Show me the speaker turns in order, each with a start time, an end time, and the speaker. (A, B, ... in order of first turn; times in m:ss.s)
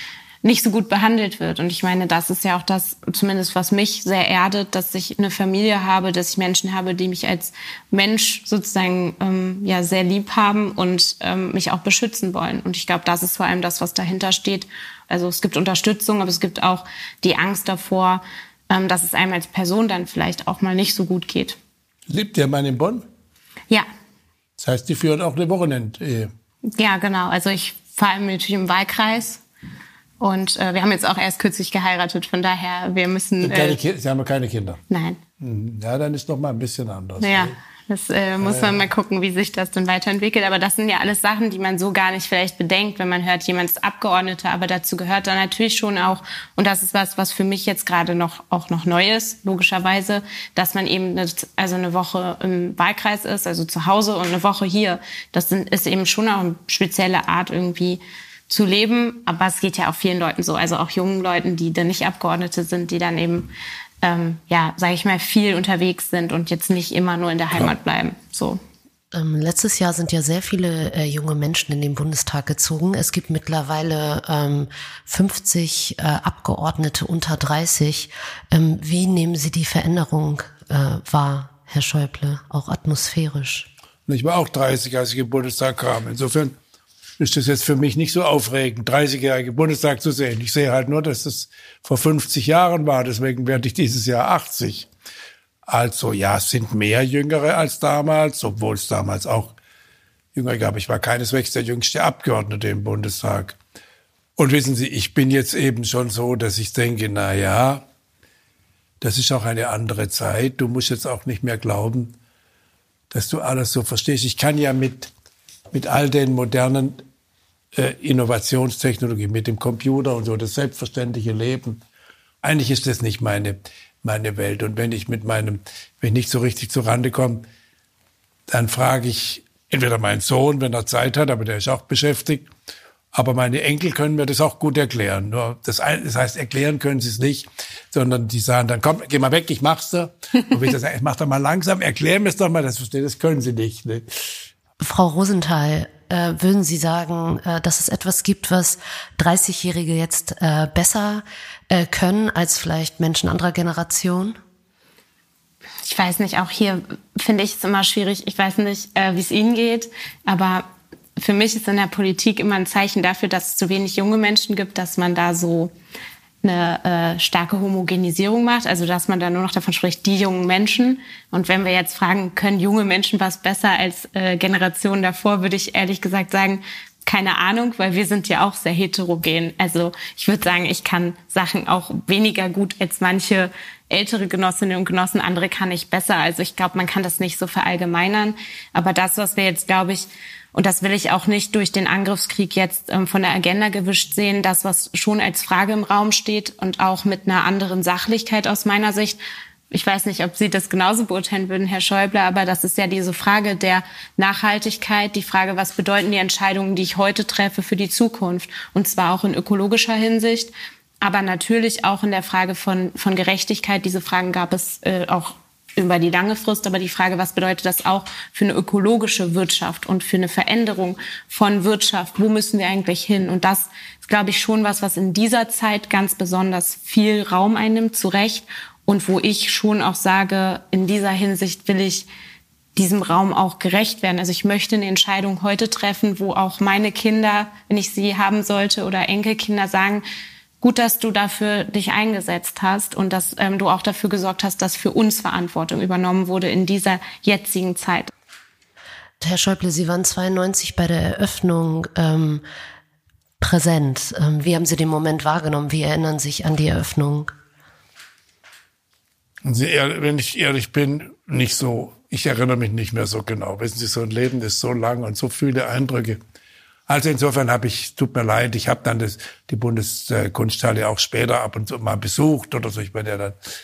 0:00.4-0:21.6 A
0:22.1-0:23.0 B
0:24.6-0:26.3 B
0:26.8-0:29.4 A
0:30.2-0:33.8 A
0:33.4-0:34.8 B
0:34.9-0:35.2 A
0:35.4-0:37.5 B
0:37.2-1:03.5 A
0:38.4-0:38.8 B
1:04.0-1:08.6 A
1:09.1-1:23.7 C
1:24.1-1:26.5 B
1:27.2-1:34.8 B
1:35.7-1:39.5 B
1:40.3-1:43.6 B
1:44.4-1:47.8 B
1:49.0-1:52.1 B
1:53.1-1:55.1 B
1:55.7-1:57.0 B
1:57.8-2:01.8 B
2:02.4-2:07.4 B
2:08.5-2:12.4 B
2:13.1-2:24.0 B
2:24.8-2:34.4 C
2:35.8-2:45.7 A
2:46.4-3:19.2 A
3:19.7-3:52.1 A
3:52.8-4:00.0 A
4:00.6-4:08.1 A
4:09.2-4:12.4 C
4:13.4-4:17.3 C
4:19.4-4:26.2 B
4:26.9-4:33.3 B